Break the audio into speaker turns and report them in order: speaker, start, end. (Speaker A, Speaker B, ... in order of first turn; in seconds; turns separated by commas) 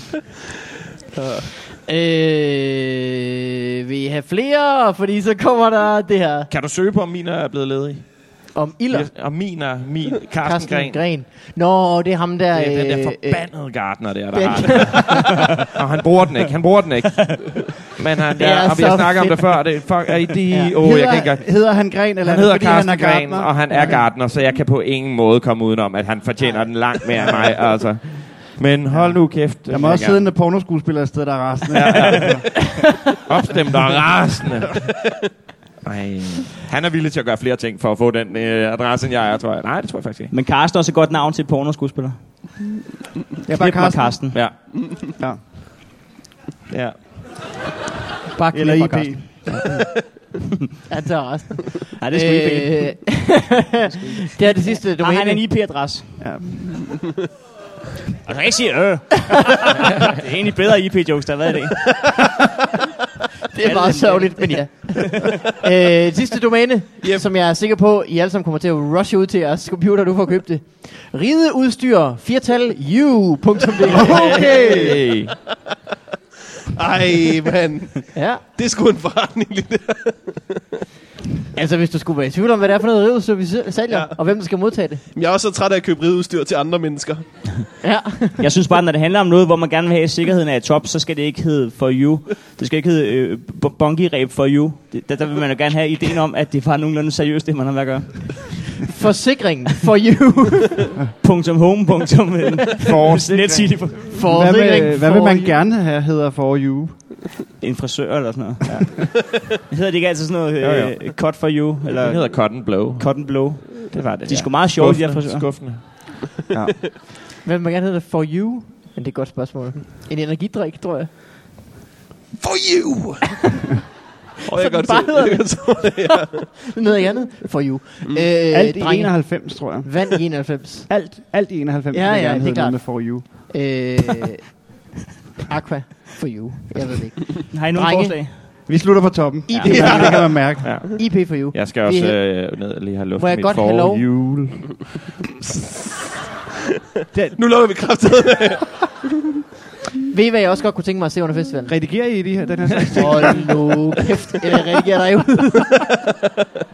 Speaker A: 1.6-6.5, Speaker B: 6.5-11.0, Speaker A: 8.5-9.1, Speaker A: 10.4-15.2, Speaker B: 12.5-30.3, Speaker A: 18.4-20.7, Speaker C: 20.8-24.0, Speaker A: 26.4-26.7, Speaker C: 28.9-32.4, Speaker B: 31.7-34.9, Speaker B: 35.8-40.3, Speaker D: 40.3-42.2, Speaker C: 43.5-44.6, Speaker D: 43.6-44.4, Speaker B: 44.3-45.1, Speaker B: 46.7-47.0, Speaker D: 48.4-49.0, Speaker A: 48.4-49.6, Speaker C: 48.5-49.7, Speaker A: 50.9-55.4, Speaker D: 52.0-53.2, Speaker D: 53.9-56.2, Speaker C: 56.2-57.0, Speaker D: 58.2-61.9, Speaker A: 63.5-75.0, Speaker D: 63.6-65.2, Speaker E: 67.0-67.3, Speaker C: 73.9-75.0, Speaker B: 73.9-75.3, Speaker E: 74.1-74.6, Speaker E: 76.7-80.6, Speaker A: 78.1-78.4, Speaker A: 81.5-85.0, Speaker E: 83.9-84.2, Speaker E: 85.1-87.2, Speaker A: 87.8-88.4, Speaker D: 88.4-98.9, Speaker A: 98.8-101.0, Speaker D: 101.2-104.1, Speaker B: 102.8-103.9, Speaker C: 103.2-107.0, Speaker A: 104.1-105.6, Speaker D: 107.6-115.5, Speaker B: 110.6-111.2, Speaker B: 112.0-115.8, Speaker C: 116.5-116.8, Speaker A: 117.4-121.1, Speaker E: 122.4-123.4, Speaker E: 124.4-126.6, Speaker A: 124.6-130.9, Speaker C: 128.5-129.9, Speaker C: 130.9-133.5, Speaker A: 131.9-134.8, Speaker A: 135.5-138.4, Speaker D: 137.5-138.4, Speaker C: 138.7-140.8, Speaker D: 139.5-140.2, Speaker A: 139.6-142.5, Speaker E: 139.6-140.6, Speaker B: 140.6-144.8, Speaker A: 143.2-144.0, Speaker C: 147.1-147.4, Speaker E: 147.3-148.8, Speaker A: 150.1-151.8, Speaker C: 151.7-153.7, Speaker A: 152.9-155.9